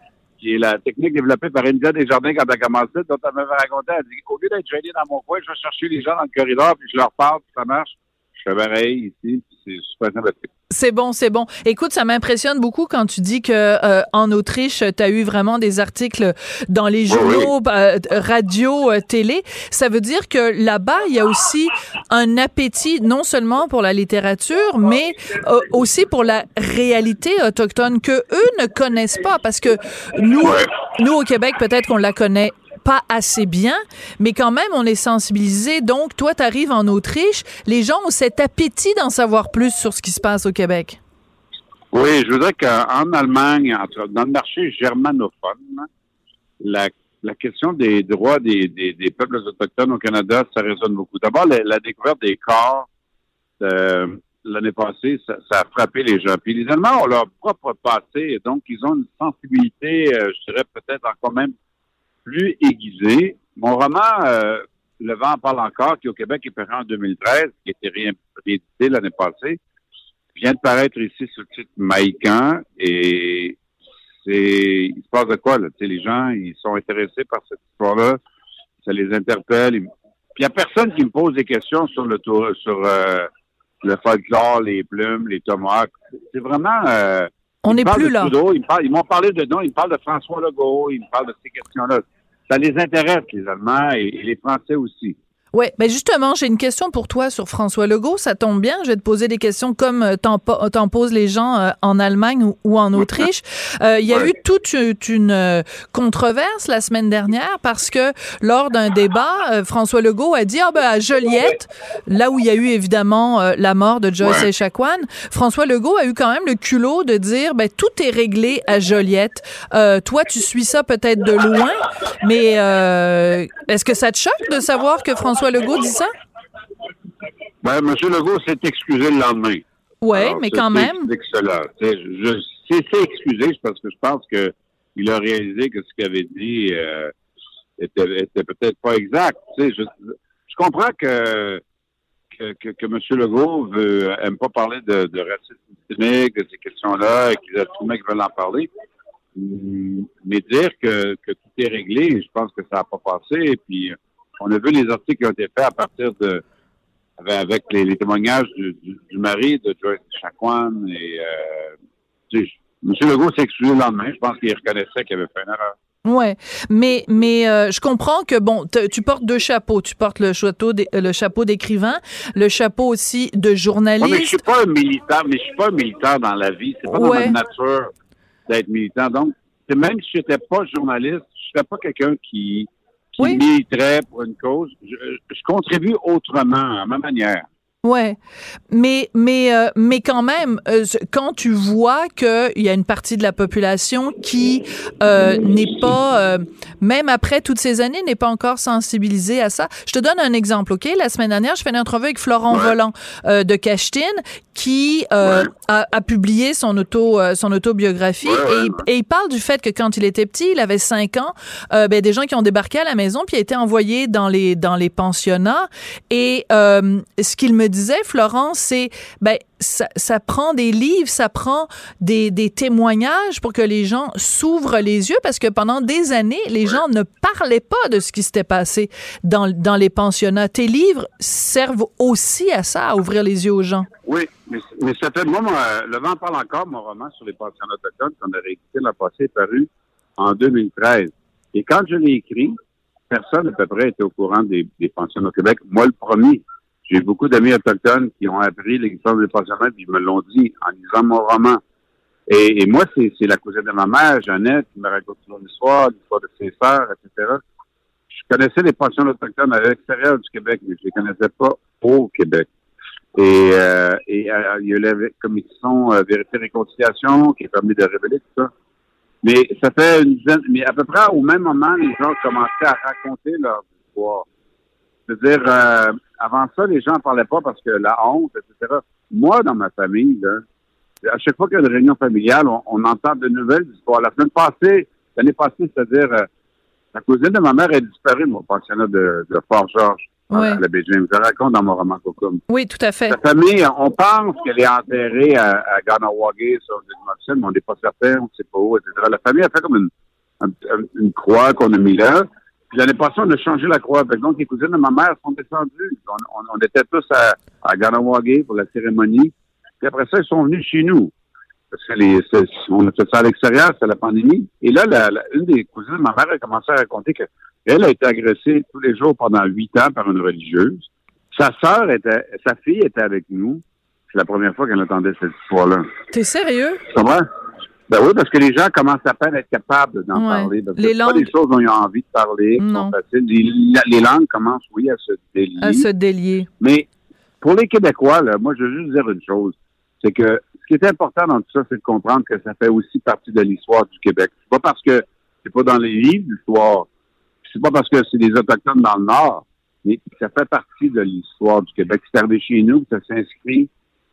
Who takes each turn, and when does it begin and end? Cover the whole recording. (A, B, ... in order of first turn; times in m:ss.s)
0:00.4-0:10.5 A
0:10.7-0:41.0 B
0:17.1-0:17.5 A
0:30.4-0:30.7 A
0:41.9-0:45.9 A
0:46.6-0:52.9 A
0:53.6-1:01.5 A
1:02.2-1:09.6 A
1:10.3-1:13.6 A
1:14.2-1:18.2 A
1:18.8-1:23.3 A
1:23.8-1:35.2 A
1:27.6-1:28.3 B
1:35.5-2:06.1 B
1:43.0-1:43.3 A
2:07.6-2:17.1 A
2:10.0-2:11.1 B
2:17.8-2:21.6 A
2:22.3-2:28.7 A
2:29.4-2:36.4 A
2:37.2-2:41.8 A
2:42.3-2:45.8 A
2:46.0-2:54.4 B
2:54.0-2:57.9 A
2:56.9-2:57.4 B
2:58.5-3:07.5 A
3:07.8-3:08.2 B
3:08.7-3:53.9 B
3:25.2-3:25.5 A
3:28.2-3:28.8 A
3:54.0-4:02.6 A
4:03.1-4:11.6 A
4:12.3-4:17.4 A
4:18.1-4:22.5 A
4:23.2-4:28.5 A
4:29.2-4:34.3 A
4:35.1-4:40.4 A
4:41.0-4:46.3 A
4:46.9-4:52.4 A
4:50.3-4:50.6 B
4:52.5-4:53.2 B
4:53.1-5:11.1 A
5:11.7-5:25.9 A
5:26.1-5:26.8 B
5:26.9-5:27.3 A
5:27.9-5:35.9 A
5:30.1-5:31.3 B
5:32.6-5:33.0 B
5:35.6-5:36.5 B
5:36.6-5:36.9 A
5:37.4-5:46.9 A
5:47.4-5:53.7 A